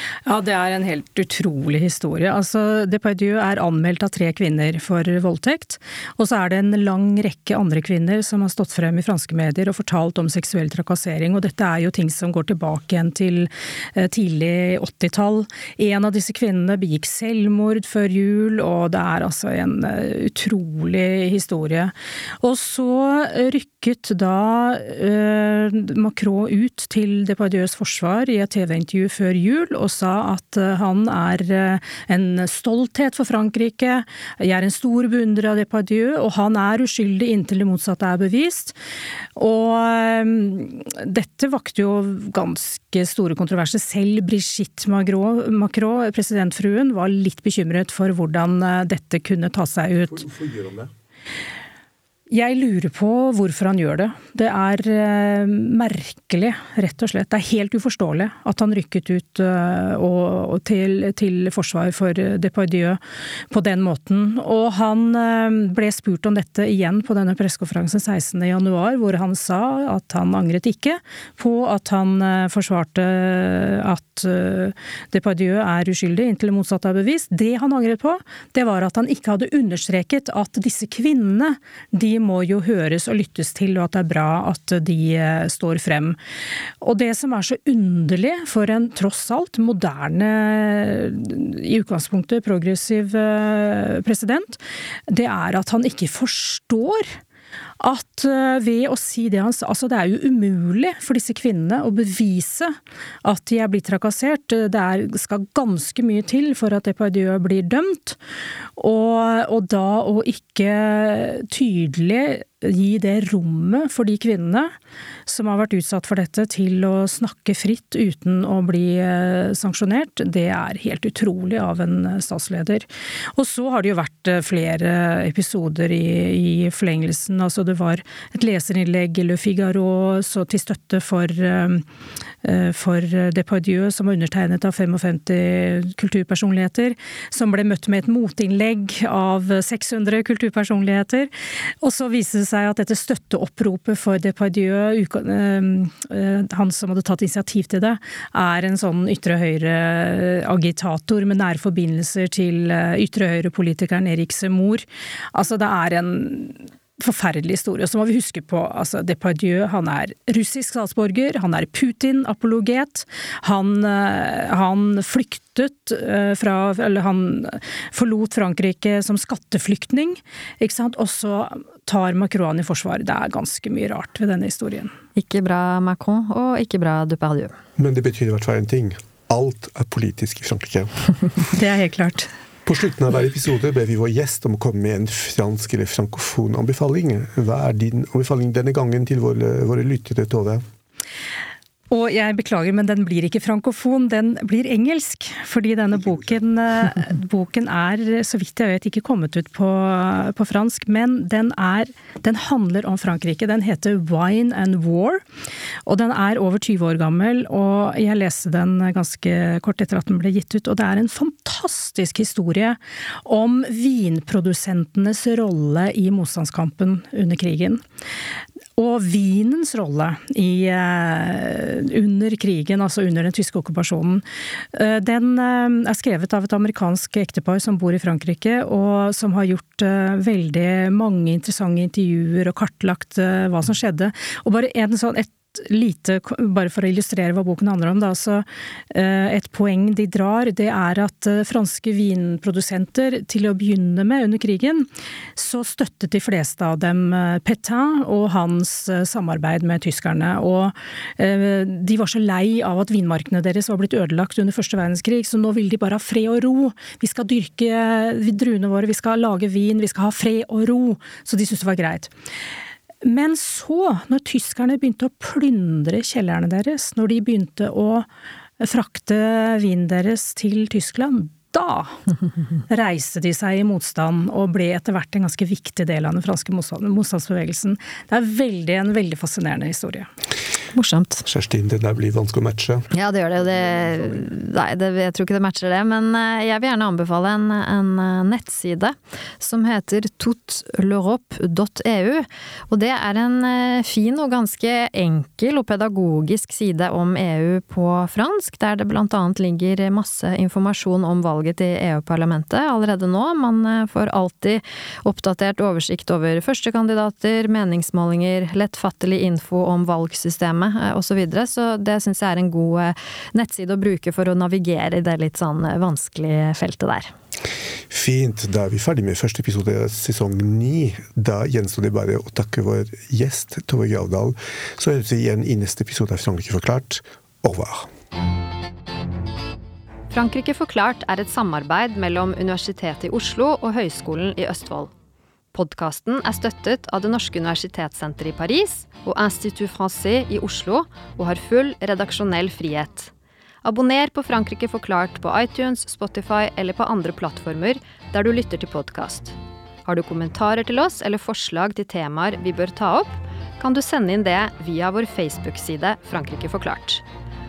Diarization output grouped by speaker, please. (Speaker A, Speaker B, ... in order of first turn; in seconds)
Speaker A: 0.2-38.8, 39.4-50.3, 52.3-63.0, 63.5-86.2, 86.8-97.2, 97.8-108.2, 108.8-114.7, 115.2-131.8, 132.4-141.3, 141.8-174.9, 181.5-182.3, 191.9-205.2, 205.8-217.8, 218.8-262.1, 263.0-268.1, 268.6-272.0, 272.7-280.1
Speaker B: 50.1-50.9, 177.8-181.1, 182.6-190.6, 281.2-284.2, 317.9-327.9
Speaker C: 175.2-177.6, 280.7-281.2, 282.9-317.1, 330.1-334.9, 335.5-343.1, 343.6-357.0